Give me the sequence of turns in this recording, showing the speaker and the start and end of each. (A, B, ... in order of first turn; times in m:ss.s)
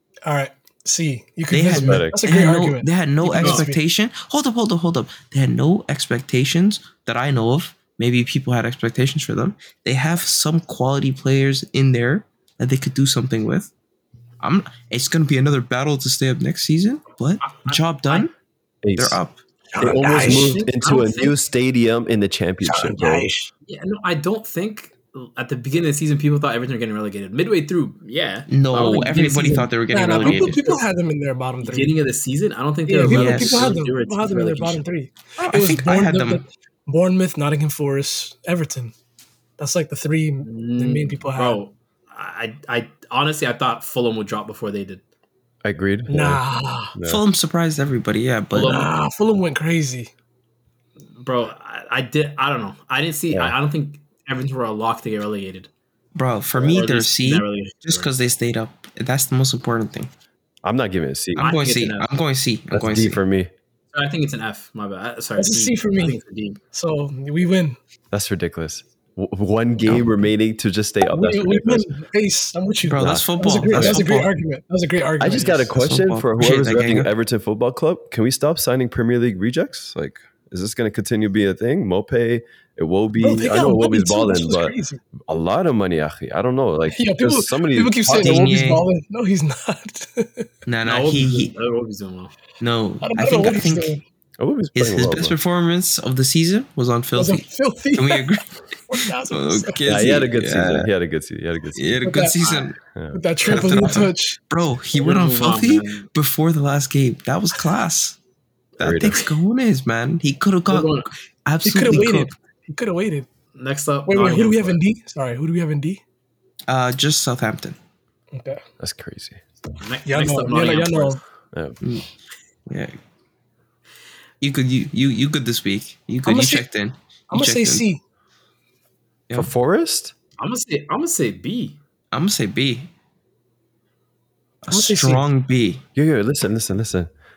0:00.2-0:03.8 A
0:01.5-0:13.7 B
0:01.8-0:02.2 C
0:03.4-0:03.6 D
0:14.4-0:18.3 B
0:17.4-0:18.3 D
0:18.8-0:19.2 C
0:19.0-0:19.4 B
0:19.7-0:20.6 A
0:19.8-0:23.3 C
0:20.0-0:21.4 D
0:22.6-0:23.5 A
0:23.7-0:30.8 D
0:28.5-0:30.8 B
0:29.9-0:31.9 A
0:31.6-0:34.8 D
0:32.9-0:38.9 A
0:33.0-0:33.7 B
0:35.4-0:36.4 B
0:39.6-0:41.6 A
0:40.4-0:45.0 D
0:45.6-0:46.4 C
0:46.1-0:47.0 A
0:46.9-0:47.2 C
0:47.0-0:48.7 B
0:48.5-0:48.9 D
0:48.6-0:50.1 A
0:51.2-0:55.7 D
0:56.1-1:00.1 B
0:56.6-0:58.1 D
1:00.6-1:01.5 C
1:01.4-1:03.2 B
1:01.4-1:02.1 D
1:02.7-1:03.5 C
1:03.9-1:06.6 D
1:05.4-1:06.2 A
1:06.7-1:07.8 A
1:08.1-1:11.9 C
1:11.0-1:15.8 A
1:12.8-1:14.3 B
1:13.0-1:14.0 C
1:15.2-1:28.4 C
1:15.7-1:17.1 B
1:23.2-1:25.0 A
1:26.9-1:30.5 A
1:28.2-1:28.8 B
1:30.6-1:31.5 B
1:30.8-1:32.3 D
1:32.6-1:34.0 B
1:33.0-1:34.0 A
1:34.4-1:35.4 C
1:34.7-1:40.9 B
1:37.2-1:39.9 A
1:39.8-1:42.0 C
1:41.8-1:42.8 B
1:42.0-1:42.4 A
1:42.9-1:43.2 C
1:43.1-1:44.4 A
1:43.4-1:48.2 B
1:44.9-1:46.0 D
1:48.8-1:49.2 C
1:48.8-1:52.3 B
1:50.7-1:51.1 D
1:51.6-1:53.3 A
1:53.5-1:54.8 D
1:54.1-1:56.0 A
1:56.7-1:57.8 B
1:58.3-1:58.6 A
1:58.8-1:59.7 C
1:59.8-2:01.2 D
2:00.0-2:01.2 A
2:01.5-2:01.8 C
2:02.7-2:03.0 B
2:04.4-2:07.9 B
2:06.2-2:06.6 A
2:07.3-2:08.0 A
2:09.3-2:10.1 C
2:10.4-2:11.8 D
2:12.1-2:12.9 B
2:14.6-2:15.8 B
2:14.7-2:15.2 A
2:15.9-2:17.1 C